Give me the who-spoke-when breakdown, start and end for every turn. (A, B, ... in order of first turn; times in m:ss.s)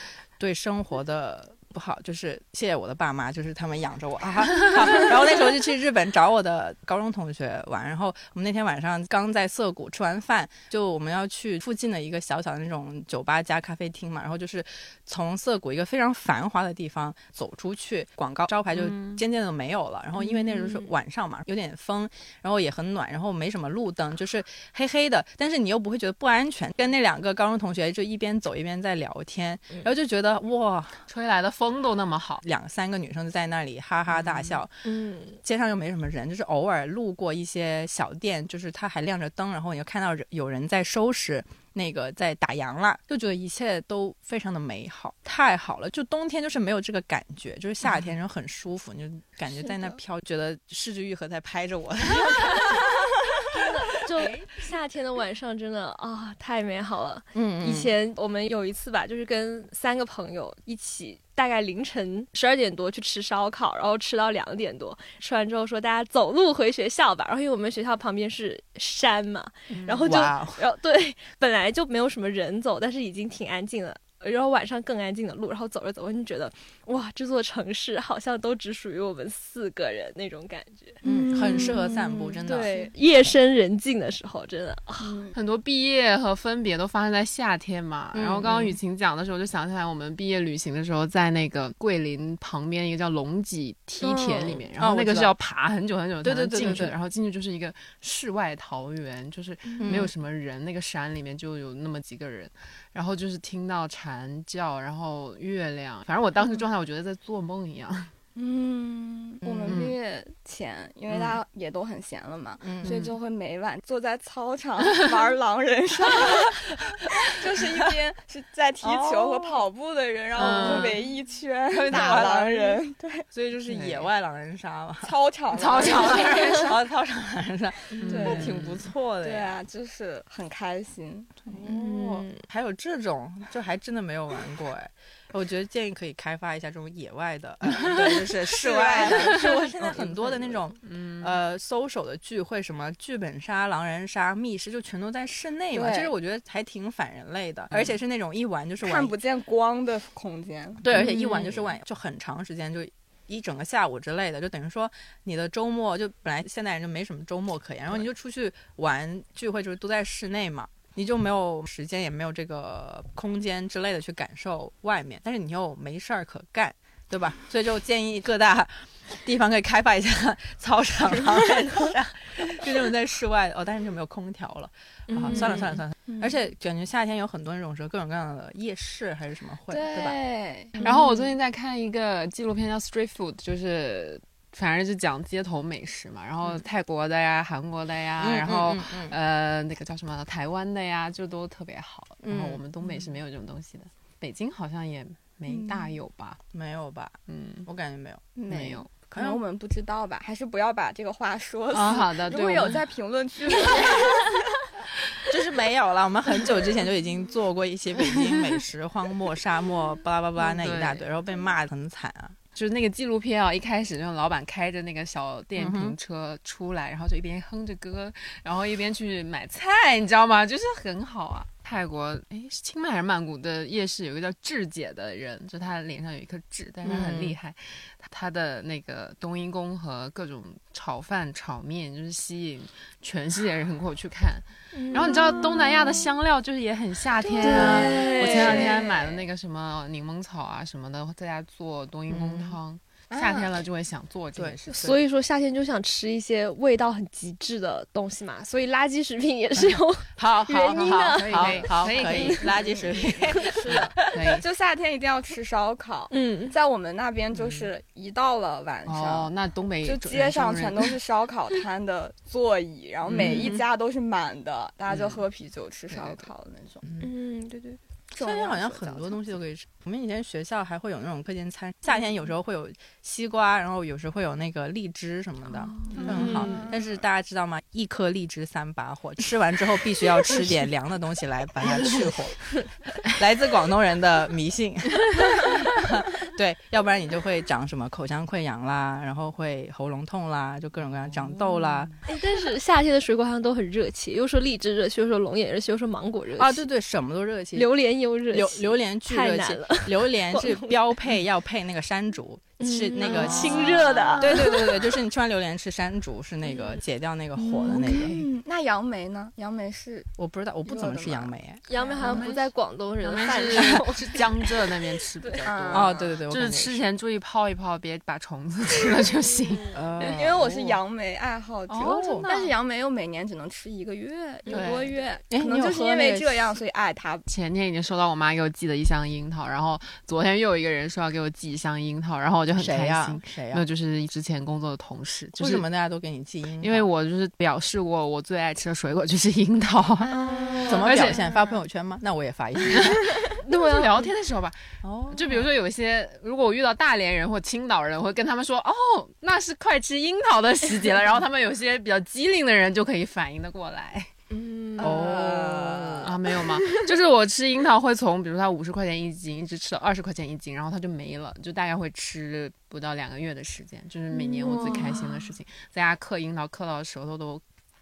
0:00.4-0:31.0 A
0:18.7-0:19.2 B
0:20.2-0:20.9 C
0:31.1-0:32.4 B
0:32.4-0:34.7 A
0:34.1-0:34.6 B
0:34.8-0:35.4 C
0:35.4-0:53.4 A
0:53.5-1:25.2 C
0:57.3-0:57.9 A
1:09.8-1:10.6 A
1:21.0-1:22.9 D
1:21.0-1:23.4 A
1:25.0-1:25.3 D
1:25.3-1:48.1 B
1:28.1-1:28.8 A
1:34.0-1:34.6 C
1:34.8-1:35.3 A
1:36.2-1:37.0 A
1:39.8-1:40.1 A
1:48.4-2:03.2 D
1:49.4-1:49.8 A
1:49.7-1:50.0 B
1:52.6-1:53.0 A
1:52.8-1:53.1 B
1:58.8-1:59.6 A
2:00.4-2:01.0 B
2:00.4-2:01.0 A
2:01.7-2:05.1 A
2:03.7-2:04.1 B
2:05.0-2:06.5 D
2:05.5-2:06.7 B
2:05.8-2:09.6 A
2:07.9-2:08.3 C
2:08.0-2:08.8 B
2:08.1-2:08.6 D
2:09.2-2:11.3 D
2:11.4-2:29.1 A
2:11.6-2:12.4 C
2:18.4-2:20.6 D
2:20.8-2:21.3 B
2:25.7-2:26.1 D
2:28.8-2:30.8 D
2:30.8-3:00.2 A
2:30.9-2:31.6 B
2:55.1-2:55.8 C
2:55.4-2:56.3 D
2:59.7-3:00.8 D
3:00.8-3:01.2 C
3:00.8-3:16.4 B
3:08.2-3:09.2 A
3:12.2-3:13.2 A
3:15.5-3:16.0 A
3:16.5-3:18.4 A
3:17.3-3:17.7 B
3:18.4-3:24.4 D
3:18.5-3:18.9 B
3:19.1-3:19.4 A
3:21.7-3:22.8 B
3:25.3-3:32.4 A
3:30.4-3:31.0 B
3:32.5-4:05.0 B
3:35.6-3:36.0 A
3:46.8-3:47.4 A
3:54.7-3:56.0 C
3:57.2-3:59.2 D
3:57.4-3:58.8 C
3:57.4-3:58.6 A
4:02.1-4:02.6 A
4:03.1-4:03.6 D
4:04.4-4:04.9 A
4:04.7-4:12.3 C
4:09.6-4:14.2 A
4:10.2-4:12.4 B
4:11.6-4:19.3 D
4:13.4-4:13.8 C
4:14.1-4:14.4 B
4:16.1-4:16.6 C
4:17.4-4:17.6 B
4:18.8-4:20.9 B
4:19.8-4:26.8 D
4:23.1-4:23.6 A
4:23.1-4:23.5 B
4:25.9-4:26.2 B
4:26.8-4:27.1 A
4:27.0-4:27.8 C
4:28.1-4:29.4 D
4:28.1-4:51.9 A
4:35.8-4:36.7 C
4:35.9-4:36.8 D
4:36.0-4:36.6 B
4:52.1-4:56.6 C
4:56.4-4:57.7 A
4:57.6-5:00.8 C
4:58.3-5:08.2 A
5:02.6-5:04.8 C
5:03.0-5:04.1 B
5:03.1-5:04.7 D
5:07.4-5:08.1 C
5:07.6-5:10.1 D
5:10.2-5:11.6 A
5:10.7-5:12.3 D
5:11.7-5:14.3 C
5:12.0-5:12.4 B
5:13.0-5:19.7 B
5:15.4-5:16.2 D
5:15.7-5:16.8 A
5:19.5-5:19.8 C
5:19.7-5:20.8 A
5:20.0-5:27.2 D
5:21.7-5:22.3 A
5:21.7-5:22.5 B
5:24.5-5:24.9 B
5:25.3-5:26.6 A
5:27.3-5:35.6 B
5:32.6-5:33.7 A
5:35.4-5:36.8 A
5:36.6-5:40.1 B
5:40.0-5:41.6 D
5:40.1-5:40.8 C
5:40.6-5:43.1 A
5:40.7-5:41.2 B
5:42.7-5:44.6 B
5:43.5-5:43.8 C
5:44.8-5:45.5 A
5:45.1-5:54.1 B
5:54.3-5:55.1 C
5:54.8-5:56.1 D
5:54.8-5:56.1 A
5:56.0-6:07.4 B
6:04.1-6:05.3 C